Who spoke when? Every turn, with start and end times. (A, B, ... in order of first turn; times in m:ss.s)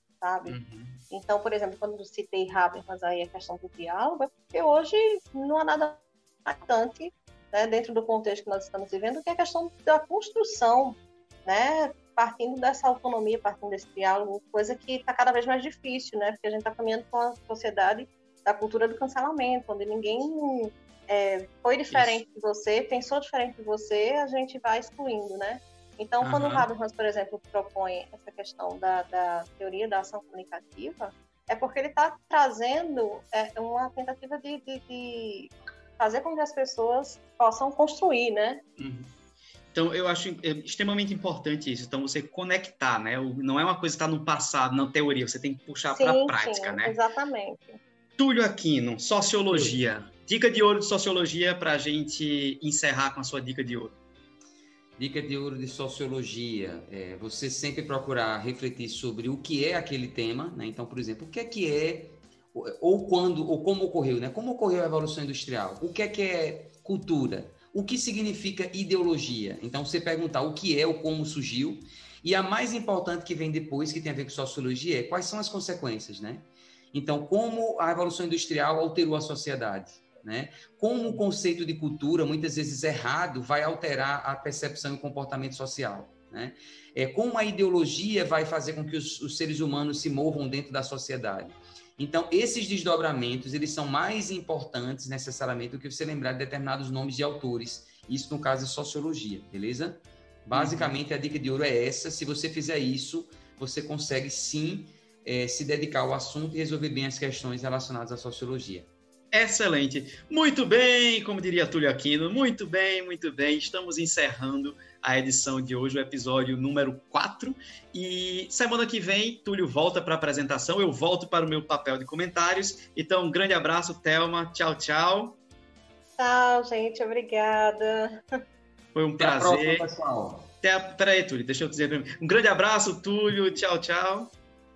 0:00.2-0:00.5 A
0:00.5-0:01.0 B
0:01.1-0:38.6 A
0:21.9-0:22.2 B
0:26.2-0:26.7 B
0:38.8-0:39.1 B
0:39.7-0:47.0 B
0:45.9-0:47.8 A
0:48.2-0:54.0 B
0:49.5-0:49.8 C
0:55.0-1:48.9 C
1:40.5-1:40.9 B
1:49.3-2:05.4 B
2:06.2-2:08.4 A
2:08.9-2:09.8 B
2:09.2-2:10.5 C
2:10.6-2:14.3 B